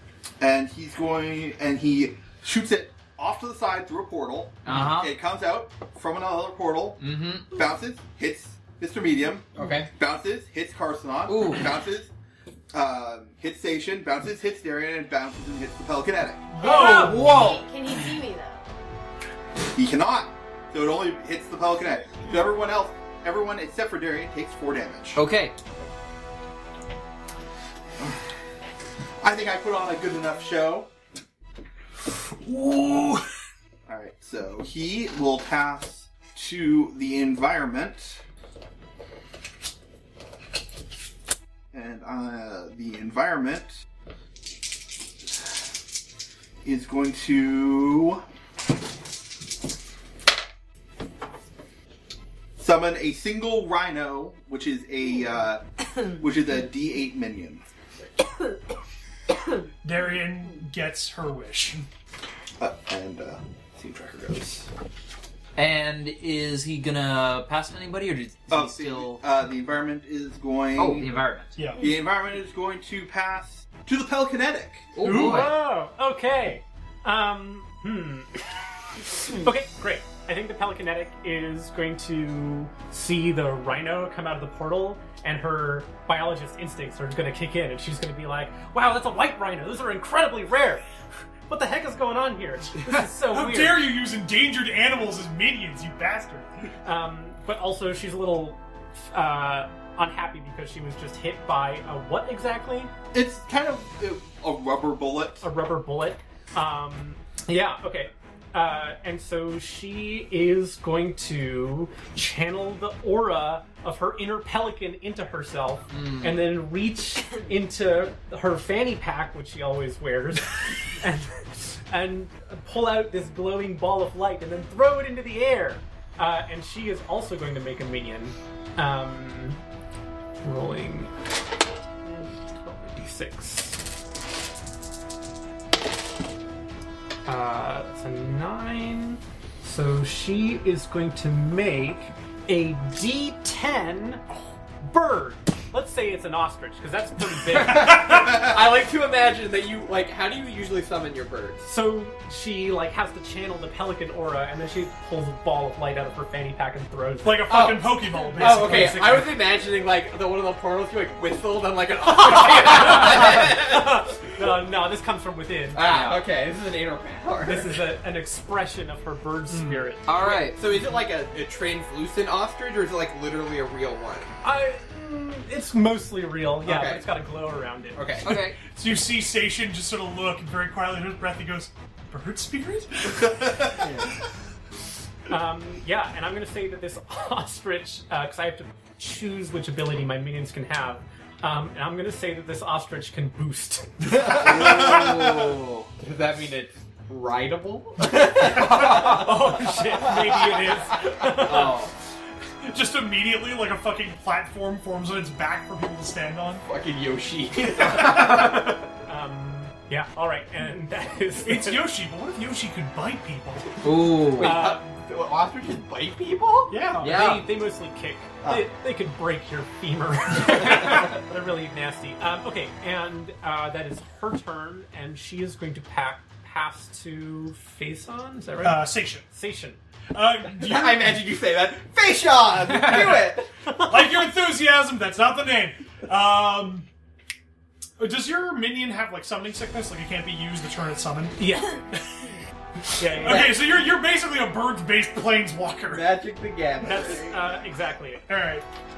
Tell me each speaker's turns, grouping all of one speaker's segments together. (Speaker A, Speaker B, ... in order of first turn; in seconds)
Speaker A: 0.4-12.1, 12.7-16.5, 19.7-25.2, 29.2-30.9, 33.9-38.2, 41.7-43.7, 46.6-48.2, 52.6-57.6, 62.6-64.7, 68.5-71.1, 71.8-74.9, 103.1-105.4, 183.3-183.7, 194.6-195.5
Speaker B: 4.7-5.1, 7.0-7.5, 11.3-11.7, 16.6-17.6, 25.1-25.5, 65.5-69.2, 70.8-71.5, 74.9-75.5, 165.8-166.2, 170.1-170.6, 178.2-178.6, 194.1-195.9, 198.7-199.1, 201.4-201.9, 213.8-214.6, 217.0-217.3
Speaker C: 9.5-9.9, 115.9-116.4, 147.5-151.7, 157.5-164.2, 165.7-167.8, 169.5-174.4, 176.6-177.1, 177.9-178.4, 194.2-195.0, 196.0-201.7, 206.6-208.8, 214.2-217.4, 230.6-233.5, 243.2-243.6, 245.9-247.4
Speaker D: 16.5-17.5, 32.5-33.1, 59.8-61.8, 71.6-71.9, 75.0-75.5, 93.2-96.7, 147.7-148.5, 157.2-159.2, 178.6-183.8, 202.6-206.6, 207.9-208.6, 211.4-213.8, 216.7-217.2, 228.6-229.3, 230.1-231.2, 232.7-233.2, 233.8-236.9, 238.0-241.4, 243.0-246.1, 248.3-248.6
Speaker E: 16.6-18.6
Speaker F: 75.0-78.4, 79.2-90.8, 91.5-93.9, 96.8-102.9, 105.4-129.6, 130.4-131.2, 132.1-133.8, 137.2-144.2, 144.8-148.3, 151.6-159.4, 162.0-165.8, 167.4-170.1, 174.4-178.2, 185.3-194.1, 198.7-201.8, 208.1-211.9, 214.4-214.8, 217.0-229.8, 233.7-234.0, 241.4-241.8, 243.0-243.6, 246.8-248.2